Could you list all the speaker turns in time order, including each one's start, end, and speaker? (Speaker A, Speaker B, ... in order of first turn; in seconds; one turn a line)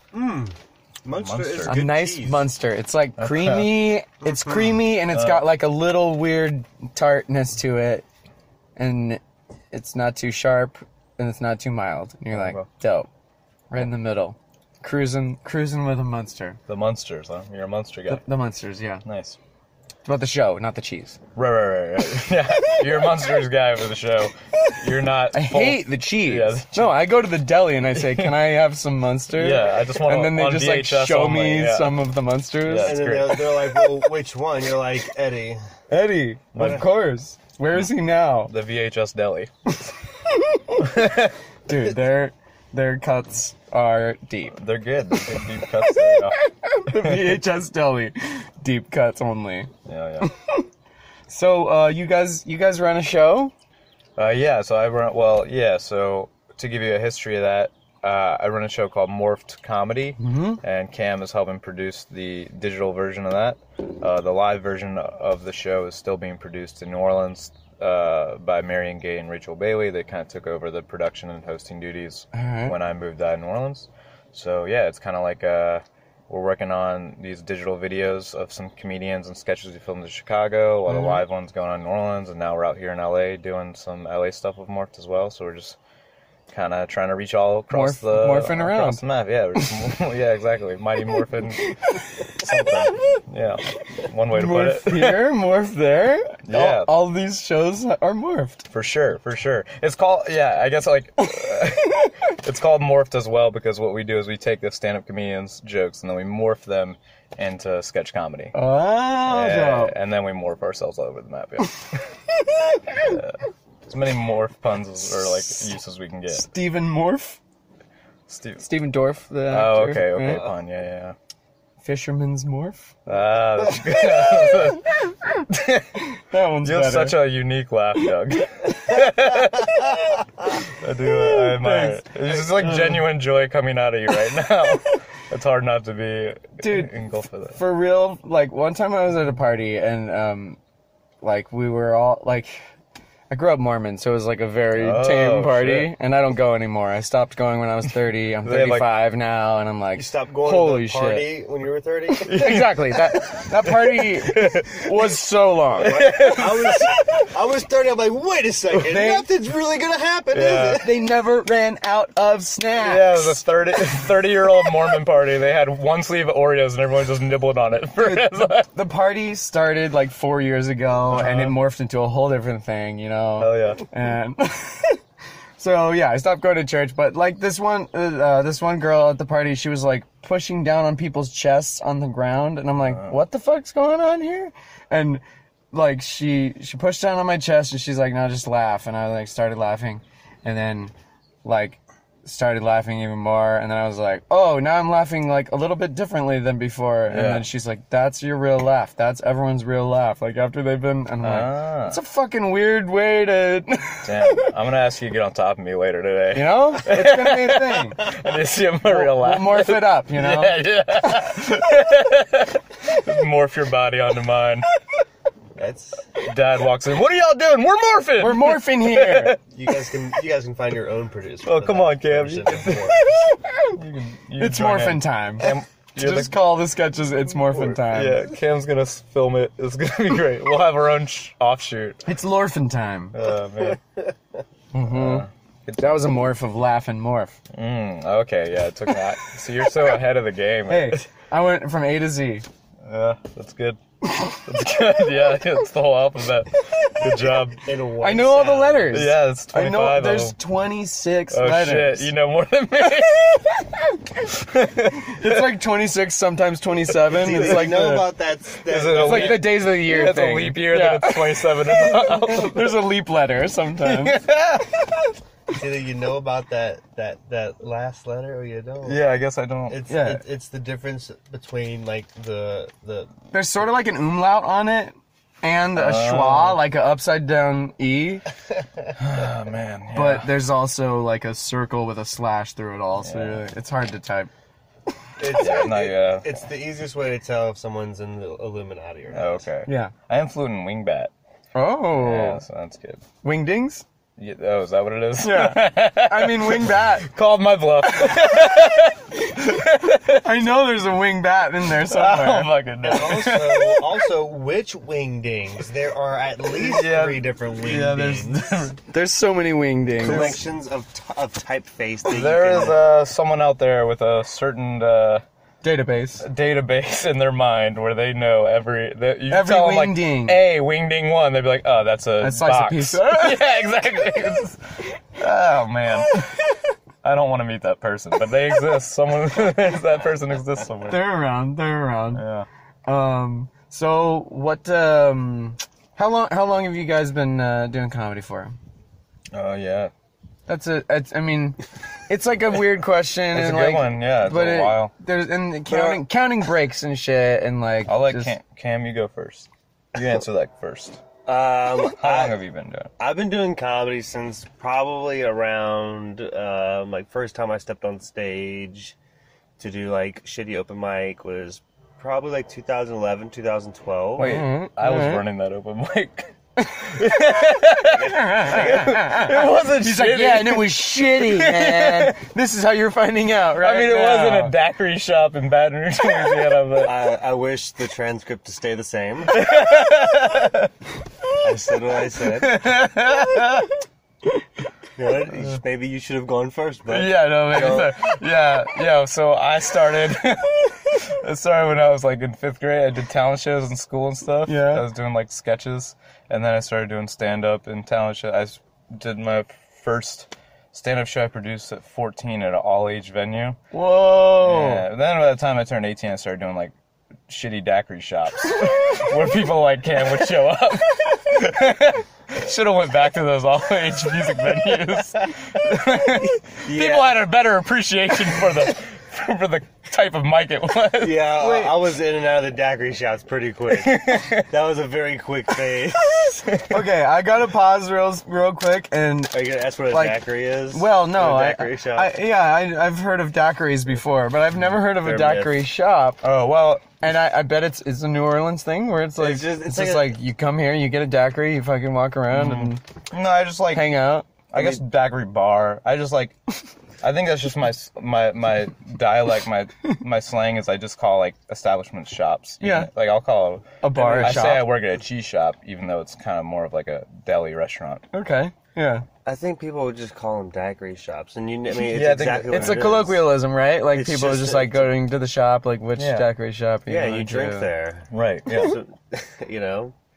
Speaker A: 0.1-2.5
Speaker B: 1.1-1.7
Speaker C: 1.7-8.1
Speaker B: 3.2-3.8
Speaker A: 4.2-4.8
Speaker B: 5.1-5.5
Speaker C: 8.8-9.2
Speaker C: 9.7-13.1
Speaker B: 12.3-12.7
Speaker C: 13.7-16.6
Speaker B: 16.7-18.2
Speaker C: 18.1-19.0
Speaker B: 19.1-19.4
Speaker C: 20.1-21.2
Speaker B: 21.4-26.9
Speaker C: 22.7-23.1
Speaker C: 25.3-33.0
Speaker B: 27.9-28.4
Speaker B: 29.3-32.0
Speaker B: 32.6-33.5
Speaker A: 32.8-35.6
Speaker C: 35.9-38.5
Speaker B: 36.5-36.9
Speaker A: 36.5-36.9
Speaker B: 38.5-39.9
Speaker C: 40.2-40.9
Speaker B: 40.8-41.4
Speaker C: 41.7-44.6
Speaker B: 44.6-46.4
Speaker C: 45.8-49.7
Speaker B: 46.9-47.4
Speaker B: 49.9-50.3
Speaker C: 50.2-50.6
Speaker C: 51.3-53.5
Speaker B: 54.2-85.8
Speaker C: 60.2-60.6
Speaker C: 72.3-72.7
Speaker C: 80.9-81.2
Speaker B: 86.5-91.8
Speaker C: 87.7-89.0
Speaker C: 91.6-92.6
Speaker B: 92.3-95.3
Speaker C: 93.9-98.7
Speaker B: 96.5-96.9
Speaker B: 98.7-108.5
Speaker C: 108.5-109.9
Speaker B: 109.3-112.0
Speaker C: 112.4-113.2
Speaker B: 113.0-116.5
Speaker C: 116.3-117.4
Speaker B: 118.3-118.7
Speaker C: 118.6-120.5
Speaker B: 119.5-121.1
Speaker C: 121.8-122.9
Speaker B: 123.0-126.1
Speaker C: 126.2-127.2
Speaker B: 126.6-137.6
Speaker C: 131.1-133.1
Speaker C: 136.6-137.0
Speaker C: 137.5-140.6
Speaker C: 141.2-142.6
Speaker C: 143.3-151.3
Speaker B: 144.7-145.9
Speaker B: 148.4-148.9
Speaker A: 149.9-152.3
Speaker B: 152.2-154.9
Speaker C: 152.3-156.1
Speaker B: 155.8-156.9
Speaker A: 155.8-160.9
Speaker C: 156.6-157.2
Speaker C: 158.8-159.3
Speaker B: 160.3-160.8
Speaker C: 160.8-163.4
Speaker B: 162.8-168.7
Speaker C: 168.0-175.0
Speaker B: 171.1-171.6
Speaker B: 173.4-173.8
Speaker C: 175.6-190.9
Speaker B: 182.8-183.2
Speaker C: 191.4-204.5
Speaker B: 197.1-197.5
Speaker B: 201.2-202.0
Speaker B: 204.0-214.7
Speaker C: 206.3-208.1
Speaker C: 208.8-210.6
Speaker A: 215.6-216.1
Speaker B: 216.2-219.4
Speaker C: 218.2-219.4
Speaker A: 219.5-223.0
Speaker B: 221.4-223.1
Speaker C: 222.9-223.8
Speaker B: 223.7-226.6
Speaker C: 224.4-228.3
Speaker B: 227.5-232.0
Speaker C: 232.1-233.2
Speaker B: 233.1-233.8
Speaker C: 234.7-235.3
Speaker B: 234.8-236.2
Speaker C: 235.8-237.4
Speaker B: 237.5-241.1
Speaker C: 240.7-242.4
Speaker B: 242.8-247.6
Speaker A: 247.6-248.9
Speaker C: 248.0-252.1
Speaker B: 248.9-250.4
Speaker B: 251.3-253.7
Speaker B: 254.2-255.5
Speaker C: 255.1-258.1
Speaker A: 257.1-259.5
Speaker B: 257.3-257.7
Speaker B: 258.6-262.8
Speaker C: 258.9-264.2
Speaker B: 263.8-264.9
Speaker A: 265.5-269.0
Speaker B: 268.8-269.8
Speaker A: 269.7-273.1
Speaker C: 269.9-270.2
Speaker C: 273.3-278.2
Speaker B: 275.8-276.6
Speaker B: 278.9-280.3
Speaker C: 279.9-284.3
Speaker B: 283.0-283.4
Speaker A: 285.2-289.4
Speaker B: 285.4-286.4
Speaker B: 289.1-291.1
Speaker C: 289.7-289.9
Speaker C: 291.6-292.4
Speaker B: 291.9-293.0
Speaker C: 293.2-293.9
Speaker B: 294.2-300.2
Speaker C: 295.2-297.1
Speaker C: 298.0-298.4
Speaker C: 299.3-303.1
Speaker B: 301.8-303.9
Speaker A: 302.8-308.4
Speaker B: 306.5-308.8
Speaker C: 308.9-310.4
Speaker A: 310.0-312.8
Speaker B: 310.0-310.4
Speaker B: 312.1-315.2
Speaker C: 315.6-316.2
Speaker B: 316.2-326.4
Speaker C: 319.3-320.4
Speaker C: 322.2-323.4
Speaker B: 327.0-331.0
Speaker C: 330.9-332.2
Speaker B: 332.1-332.5
Speaker C: 332.9-338.6
Speaker B: 339.3-339.9
Speaker C: 340.5-348.3
Speaker B: 343.3-344.9
Speaker A: 345.7-346.0
Speaker B: 347.9-351.0
Speaker A: 351.2-352.4
Speaker B: 351.9-352.9
Speaker A: 353.0-358.9
Speaker A: 359.6-364.4
Speaker B: 364.2-372.2
Speaker C: 364.2-365.2
Speaker A: 367.8-368.9
Speaker C: 368.1-374.6
Speaker B: 373.6-377.1
Speaker A: 376.8-379.4
Speaker B: 379.3-380.7
Speaker A: 381.4-382.6
Speaker C: 382.3-383.7
Speaker A: 385.0-387.9
Speaker C: 386.9-388.1
Speaker B: 387.5-403.6
Speaker C: 394.5-394.9
Speaker C: 403.7-404.9
Speaker B: 404.4-406.7
Speaker B: 407.3-421.3
Speaker A: 416.5-417.1
Speaker A: 421.0-426.5
Speaker C: 421.4-421.7
Speaker B: 423.7-424.5
Speaker B: 426.5-426.8
Speaker C: 426.7-429.4
Speaker A: 429.3-432.1
Speaker C: 429.9-436.2
Speaker A: 434.8-435.6
Speaker B: 436.2-436.9
Speaker C: 437.0-442.8
Speaker A: 439.2-440.1
Speaker B: 442.3-444.0
Speaker C: 443.7-444.3
Speaker B: 444.5-446.4
Speaker B: 447.0-458.0
Speaker C: 452.6-452.9
Speaker C: 453.8-454.7
Speaker C: 458.1-459.1
Speaker A: 459.2-463.3
Speaker B: 461.8-462.9
Speaker C: 462.5-467.7
Speaker A: 463.9-465.0
Speaker B: 466.0-466.3
Speaker A: 466.9-469.9
Speaker B: 468.1-468.8